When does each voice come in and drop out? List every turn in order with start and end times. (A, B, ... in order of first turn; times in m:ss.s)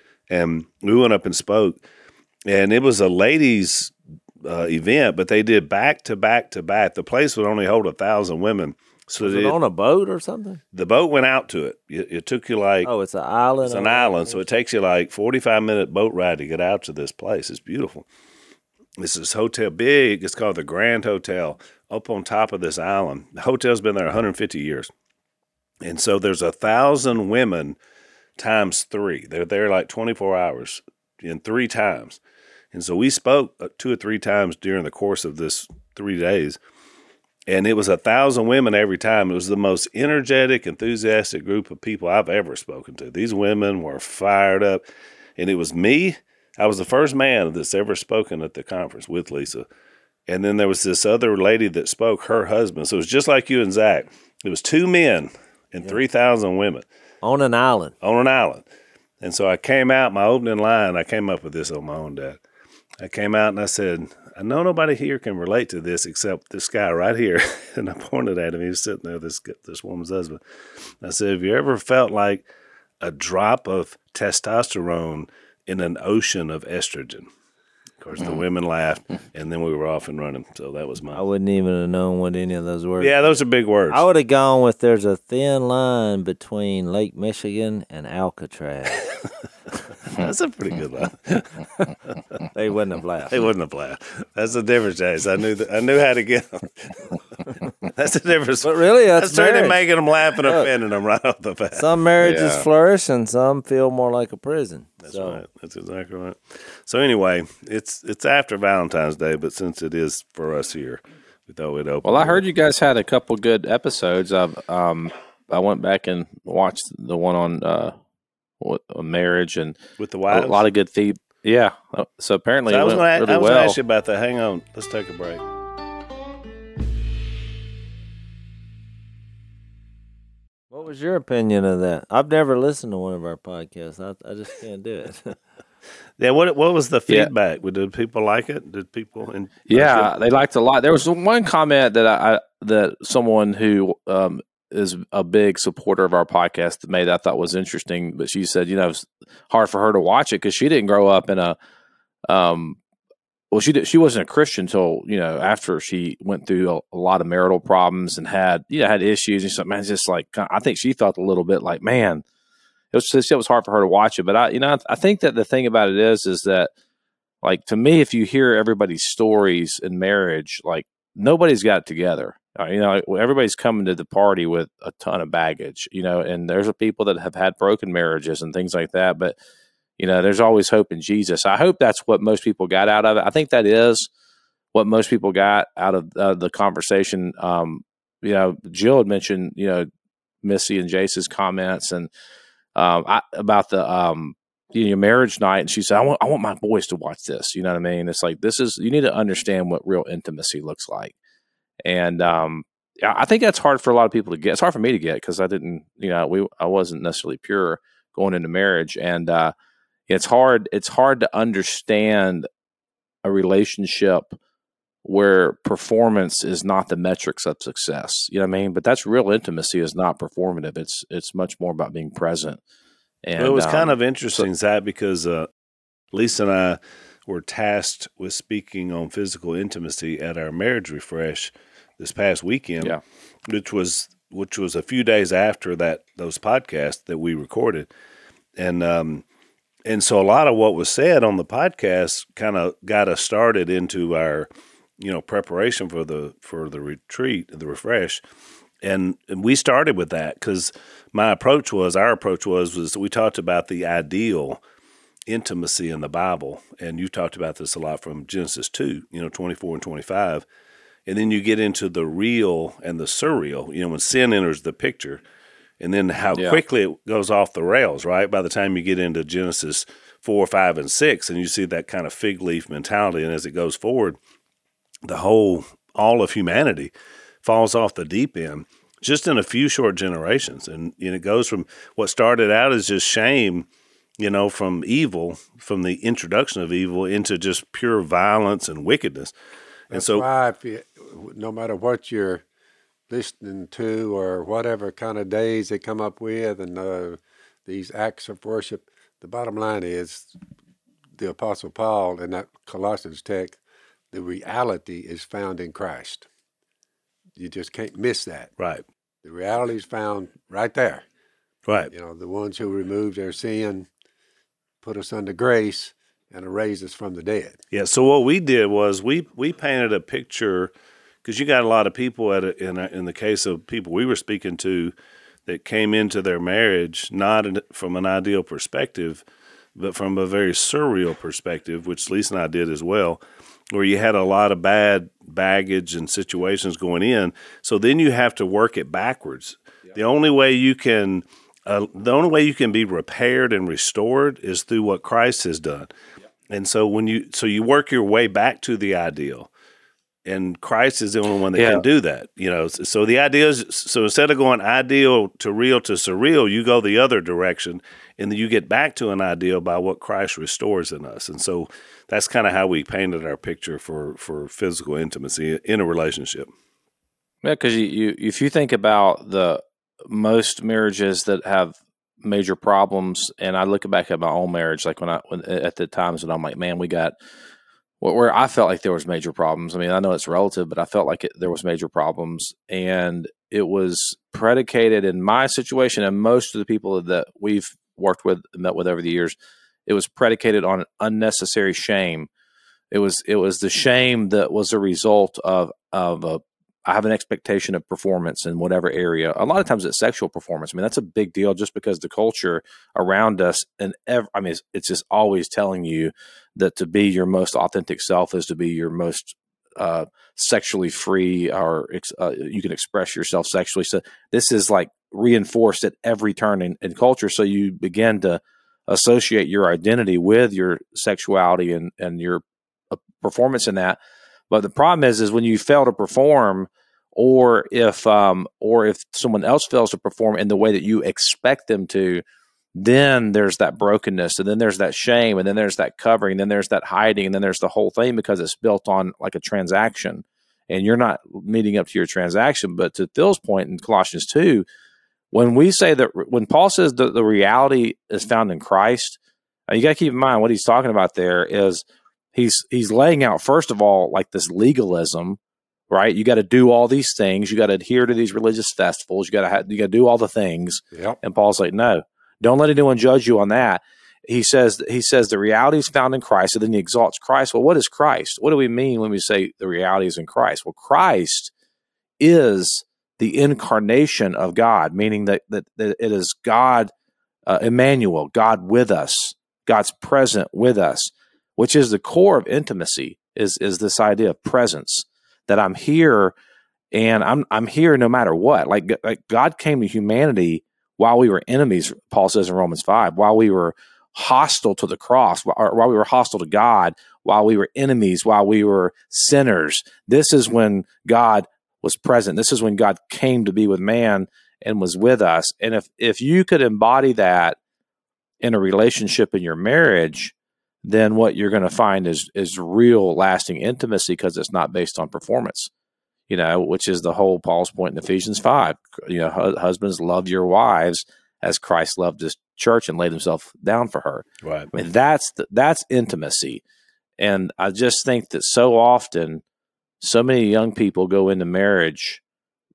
0:00.3-0:01.8 A
0:02.4-0:09.6 A
0:09.2-0:10.6 B
0:10.7-0:12.9 A
0:12.8-0:14.4 B
0:13.6-0:18.0 A
0:19.0-0:24.9 A
0:25.8-0:27.8 A
0:28.4-0:32.2 A
0:32.7-0:36.6 A
0:37.5-0:44.8 A
0:45.4-0:49.6 A
0:50.3-0:56.8 A
0:57.2-0:57.9 B
0:58.0-0:58.6 A
0:59.2-1:02.4 A
1:03.0-1:12.4 A
1:13.0-1:17.3 A
1:18.0-1:21.2 A
1:21.1-1:23.1 B
1:23.0-1:24.0 A
1:23.9-1:29.1 B
1:30.0-1:31.6 A
1:32.5-1:33.3 B
1:33.3-1:37.2 A
1:37.8-1:41.9 A
1:38.6-1:39.8 B
1:41.7-1:45.4 B
1:42.2-1:42.6 C
1:45.0-1:52.4 A
1:52.0-1:57.9 C
1:58.6-2:03.8 C
2:00.0-2:00.6 A
2:02.7-2:05.4 A
2:10.7-2:15.4 B
2:16.2-2:20.1 A
2:19.7-2:31.6 C
2:32.3-2:32.8 C
2:33.5-2:42.2 C
2:42.9-2:46.7 C
2:47.4-2:59.4 C
3:00.0-3:04.1 C
3:04.7-3:09.8 C
3:10.4-3:12.1 C
3:12.7-3:21.1 C
3:21.8-3:29.5 C
3:30.1-3:32.5 C
3:33.2-3:34.4 C
3:35.0-3:42.6 C
3:43.2-3:44.4 C
3:43.4-3:45.5 A
3:46.1-3:53.0 A
3:53.5-3:57.9 A
3:58.6-3:59.2 A
3:59.8-4:08.2 A
4:08.8-4:14.6 A
4:15.3-4:20.4 A
4:21.0-4:25.2 A
4:25.8-4:34.2 A
4:26.3-4:26.6 C
4:35.0-4:36.9 A
4:37.4-4:43.6 A
4:44.2-4:49.3 A
4:49.9-4:52.4 D
4:49.9-4:50.2 A
4:53.1-5:00.4 D
5:01.2-5:03.6 D
5:04.1-5:06.3 D
5:07.4-5:08.5 D
5:08.6-5:08.8 A
5:09.2-5:11.0 D
5:11.9-5:13.9 D
5:14.8-5:17.6 D
5:17.7-5:20.7 A
5:21.2-5:24.9 A
5:25.5-5:29.2 A
5:29.8-5:33.2 A
5:33.7-5:45.9 A
5:46.5-5:49.5 A
5:50.2-6:06.5 A
5:51.5-5:51.8 C
6:07.4-6:17.1 C
6:18.0-6:29.3 C
6:29.8-6:32.3 C
6:32.9-7:04.0 C
7:04.5-7:12.2 C
7:12.7-7:24.6 C
7:25.3-7:51.5 C
7:40.9-7:41.2 D
7:52.2-7:56.9 C
7:57.5-8:06.3 C
8:06.9-8:27.6 C
8:28.4-8:35.7 C
8:36.3-8:46.6 C
8:44.4-8:44.7 A
8:47.2-8:49.4 C
8:50.0-8:52.2 C